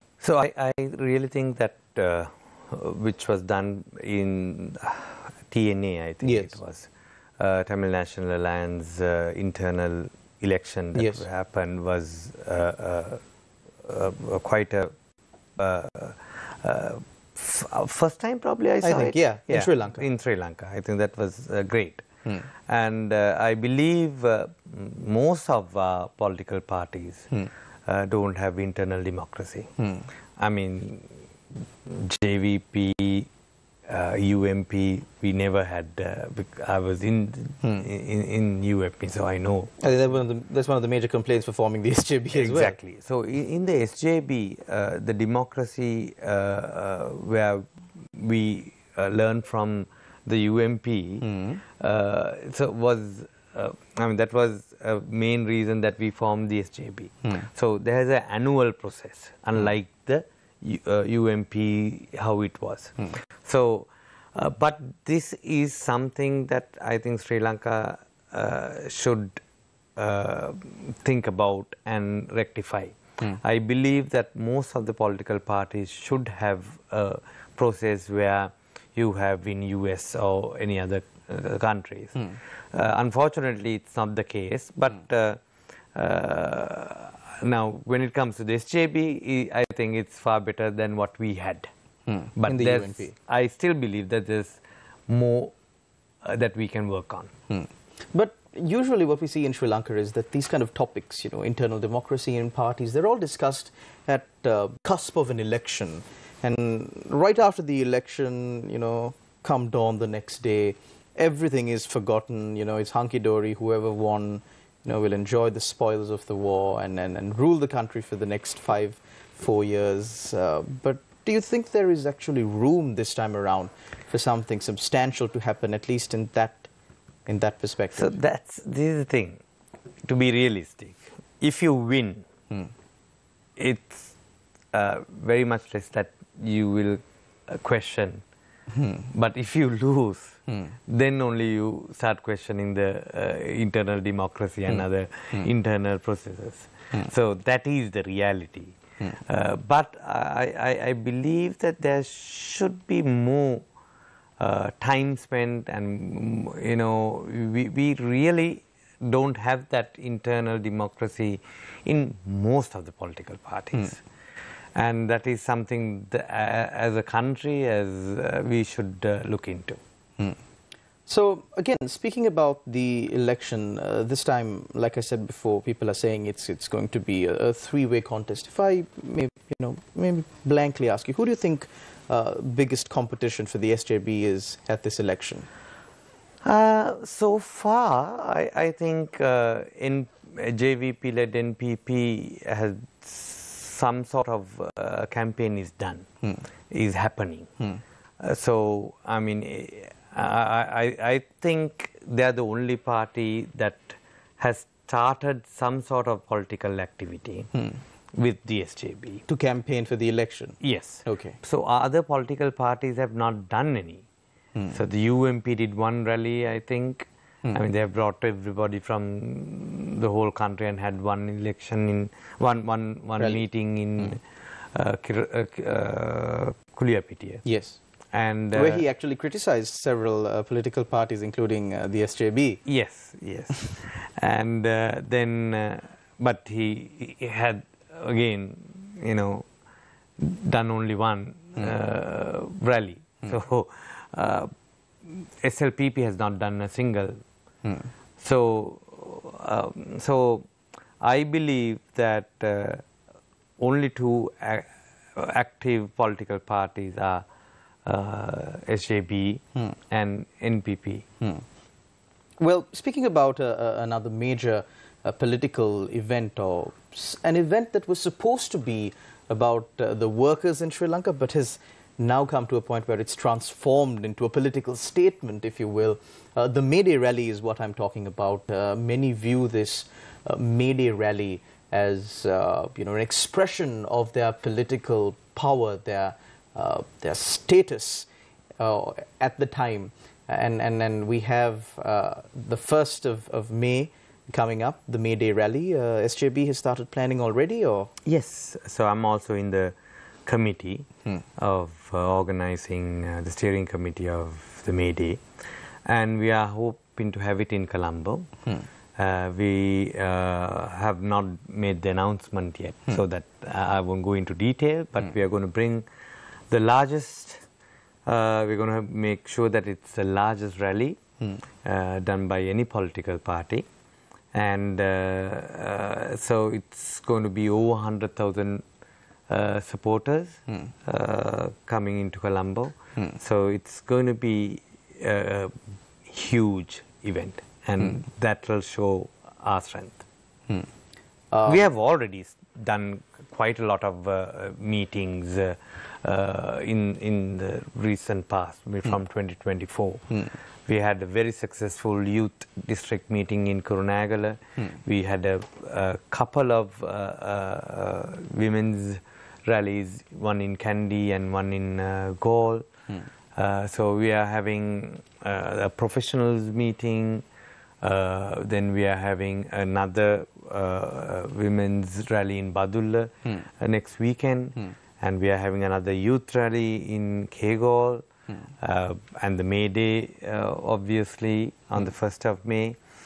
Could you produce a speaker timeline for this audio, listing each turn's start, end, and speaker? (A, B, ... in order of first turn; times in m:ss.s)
0:00.2-0:13.2 A
0:06.2-0:06.5 B
0:11.0-0:11.2 B
0:13.8-0:14.9 A
0:15.6-0:22.0 A
0:18.8-0:20.0 B
0:22.6-0:27.3 A
0:27.8-0:29.8 A
0:30.4-0:33.3 A
0:33.9-0:39.7 A
0:39.8-0:42.8 B
0:42.3-1:09.4 A
1:10.0-1:25.4 A
1:25.9-1:31.7 A
1:32.4-1:35.5 A
1:32.4-1:33.1 B
1:36.2-1:37.3 A
1:38.1-2:06.7 B
2:07.3-2:08.1 B
2:08.0-2:09.4 A
2:10.0-2:12.2 A
2:13.6-2:14.1 A
2:14.7-2:18.2 A
2:19.0-2:33.6 A
2:34.4-2:44.0 A
2:44.8-2:49.8 A
2:51.1-3:05.5 B
3:06.4-3:16.1 A
3:16.7-3:17.6 A
3:18.2-3:27.5 A
3:28.1-3:29.2 A
3:29.3-3:31.4 B
3:30.6-3:34.0 A
3:34.7-3:44.2 A
3:44.7-3:47.4 A
3:47.4-3:47.8 B
3:48.1-3:48.8 A
3:48.5-3:52.6 B
3:52.6-3:59.5 A
4:00.2-4:04.5 A
4:05.0-4:07.2 A
4:08.2-4:10.5 A
4:11.0-4:12.8 A
4:13.6-4:17.2 A
4:17.8-4:21.0 A
4:22.4-4:48.1 B
4:48.6-4:57.9 B
4:58.0-4:59.7 A
5:00.2-5:05.2 A
5:05.8-5:08.3 A
5:09.0-5:15.8 A
5:16.5-5:17.4 A
5:18.0-5:21.0 A
5:21.6-5:23.6 A
5:24.3-5:28.6 A
5:29.3-5:35.5 A
5:36.0-5:40.0 A
5:41.3-5:41.6 B
5:41.4-6:02.7 A
6:03.3-6:07.2 A
6:07.8-6:18.0 A
6:18.6-6:22.8 A